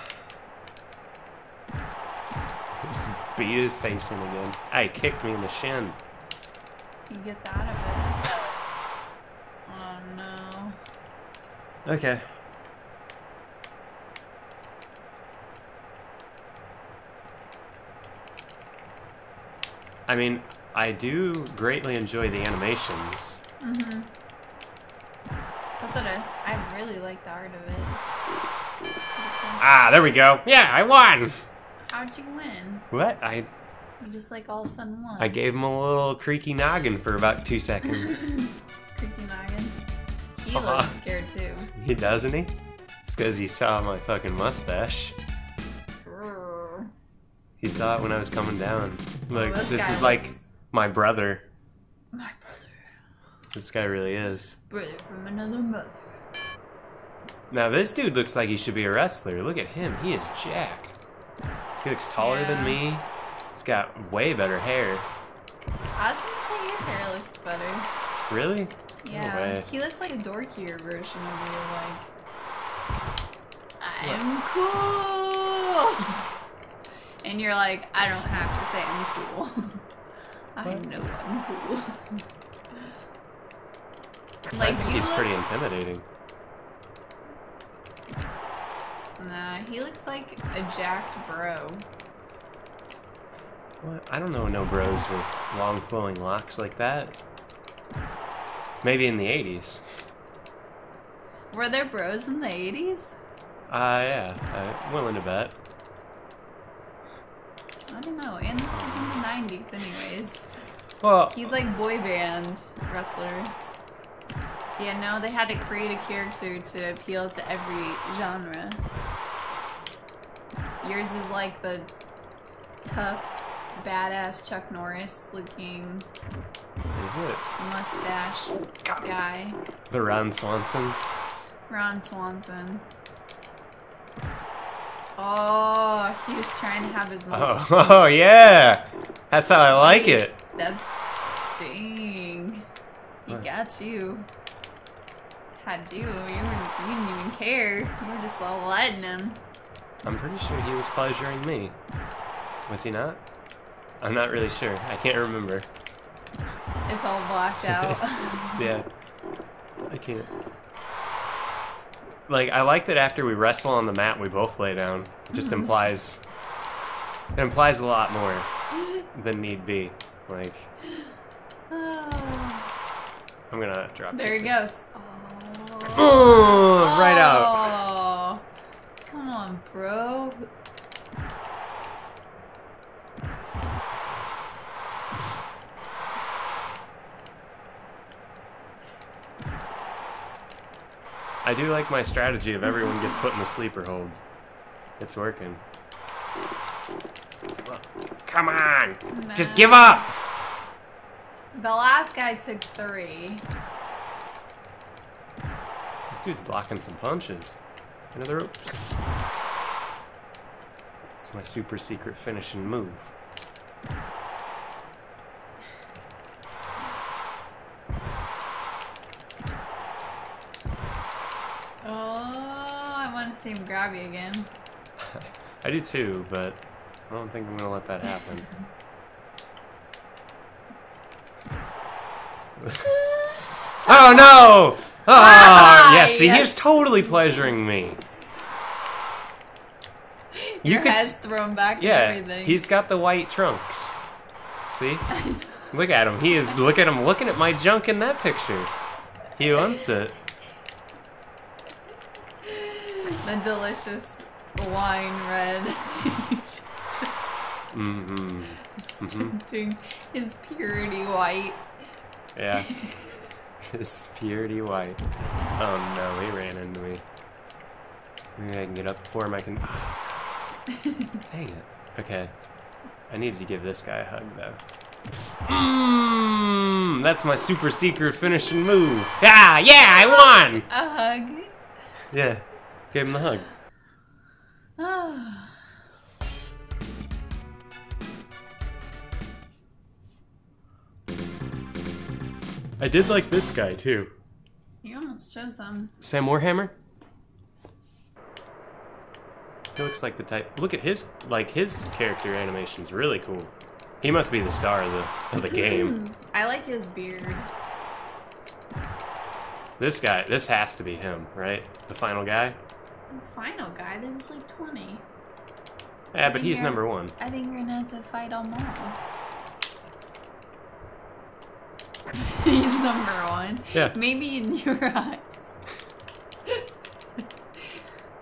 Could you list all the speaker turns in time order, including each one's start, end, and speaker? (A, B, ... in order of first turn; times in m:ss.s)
0:02.8-0:06.0 A
0:07.1-0:08.3 B
0:09.6-0:10.8 B
0:11.8-0:12.2 A
0:20.1-0:23.4 A
0:23.6-0:24.1 B
0:25.8-0:28.0 B
0:28.9-0:29.6 B
0:29.6-0:31.3 A
0:31.9-0:32.9 B
0:32.9-0:33.5 A
0:34.0-0:35.4 B
0:35.2-0:38.3 A
0:38.0-0:39.8 B
0:40.4-0:41.7 B
0:40.5-0:40.9 A
0:41.7-0:45.1 A
0:46.0-0:46.9 B
0:47.6-0:51.4 A
0:49.3-0:50.4 B
0:52.1-0:52.7 B
0:53.5-0:54.5 A
0:54.7-0:56.1 B
0:57.5-1:01.0 A
1:01.8-1:05.1 A
1:02.2-1:02.8 B
1:06.0-1:07.9 B
1:08.3-1:09.7 A
1:09.0-1:12.1 B
1:13.8-1:16.2 B
1:17.2-1:19.8 B
1:20.6-1:22.2 B
1:20.6-1:20.9 A
1:24.5-1:25.3 B
1:24.6-1:26.0 A
1:29.2-1:31.8 B
1:33.8-1:37.2 A
1:38.8-1:40.0 A
1:41.5-1:43.1 B
1:43.7-1:45.6 A
1:47.9-1:50.5 B
1:48.7-1:49.2 A
1:51.0-1:51.5 A
1:51.3-1:53.5 B
1:54.8-1:58.8 B
2:00.8-2:01.9 B
2:02.8-2:06.0 B
2:06.9-2:07.4 A
2:07.6-2:09.6 B
2:09.9-2:11.0 A
2:11.7-2:12.8 B
2:15.2-2:17.6 B
2:17.3-2:20.4 A
2:19.7-2:22.6 B
2:23.2-2:24.3 B
2:25.6-2:29.4 B
2:30.0-2:31.8 A
2:32.7-2:33.2 A
2:34.0-2:35.7 A
2:36.9-2:38.7 B
2:37.6-2:38.9 A
2:39.8-2:40.3 A
2:42.3-2:46.2 A
2:45.3-2:45.8 B
2:47.3-2:48.5 A
2:49.1-2:50.7 A
2:51.7-2:52.7 B
2:53.5-2:54.6 A
2:54.1-2:58.4 B
2:56.0-2:57.8 A
2:59.0-3:00.5 B
3:11.4-3:14.2 A
3:15.0-3:15.6 A
3:17.6-3:20.2 A
3:19.1-3:20.0 B
3:21.5-3:23.4 B
3:26.1-3:27.6 A
3:28.1-3:29.6 A
3:31.1-3:33.1 A
3:41.8-3:44.5 B
3:45.0-3:48.5 A
3:52.6-3:52.9 A
3:52.9-3:57.3 B
3:53.8-3:58.0 A
4:00.3-4:02.6 B
4:00.6-4:01.2 A
4:01.8-4:04.0 A
4:04.7-4:05.1 A
4:05.1-4:05.7 B
4:05.7-4:08.7 A
4:09.4-4:10.1 A
4:12.4-4:17.4 B
4:17.7-4:19.4 A
4:18.6-4:21.6 B
4:22.3-4:22.8 A
4:22.6-4:23.1 B
4:23.6-4:25.0 A
4:25.6-4:27.0 A
4:28.4-4:30.2 A
4:30.7-4:31.2 B
4:31.3-4:32.3 A
4:33.1-4:34.6 A
4:35.4-4:40.6 A
4:39.8-4:41.6 B
4:42.1-4:43.5 A
4:44.8-4:45.6 B
4:52.8-4:54.1 A
4:54.8-4:55.9 B
4:56.0-4:56.7 A
4:59.7-5:06.0 A
5:05.4-5:07.5 B
5:09.8-5:12.6 A
5:13.1-5:15.0 B
5:16.1-5:17.1 A
5:16.2-5:19.0 B
5:22.1-5:25.5 B